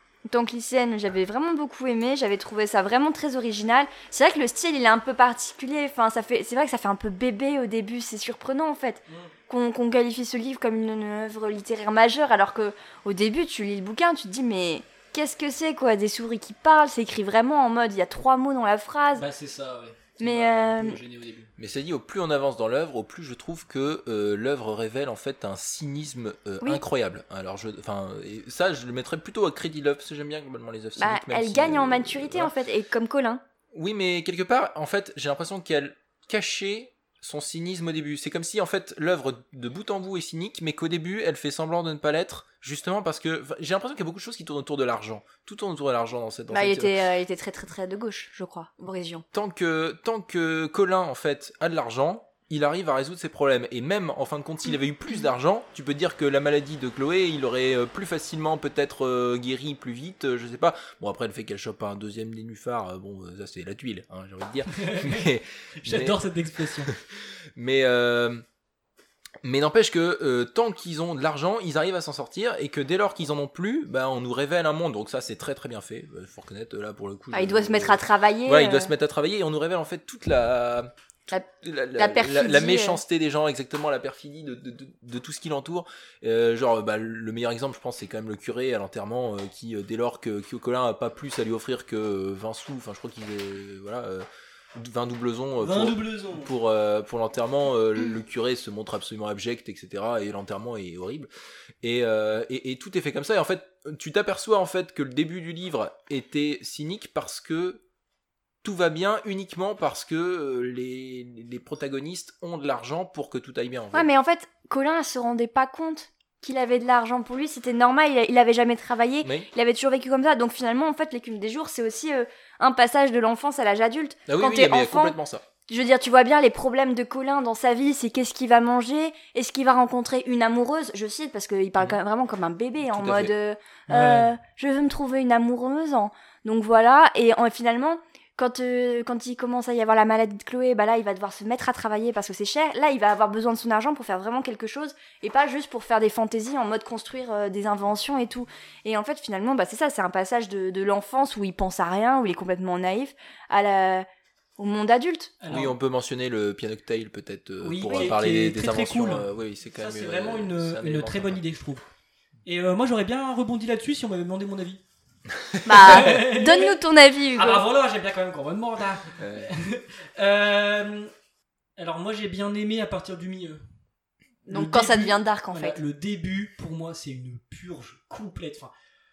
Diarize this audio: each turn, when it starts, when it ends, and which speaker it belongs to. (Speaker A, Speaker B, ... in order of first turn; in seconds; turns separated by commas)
Speaker A: 0.3-19.2, Speaker B: 19.1-21.5, Speaker A: 20.2-21.0, Speaker C: 21.6-32.5, Speaker A: 31.0-33.4, Speaker C: 33.7-47.0, Speaker A: 46.5-49.2, Speaker C: 49.3-66.2, Speaker B: 64.8-66.9, Speaker C: 66.8-68.4, Speaker C: 69.4-101.3, Speaker A: 77.3-78.9, Speaker A: 82.0-83.0, Speaker B: 95.6-96.5, Speaker C: 101.8-107.8, Speaker C: 108.6-114.1, Speaker A: 113.9-125.2, Speaker C: 119.2-119.5, Speaker C: 124.3-125.5, Speaker A: 125.7-154.1, Speaker C: 132.9-133.3, Speaker B: 133.9-134.3, Speaker A: 154.6-155.4, Speaker B: 155.4-155.8, Speaker C: 155.5-161.4, Speaker B: 157.6-161.8, Speaker B: 162.4-164.8, Speaker C: 165.3-165.7, Speaker A: 165.7-167.6, Speaker B: 165.7-166.8, Speaker B: 167.4-171.1, Speaker C: 169.2-169.5, Speaker B: 171.8-173.6, Speaker A: 174.5-175.8, Speaker B: 174.5-178.7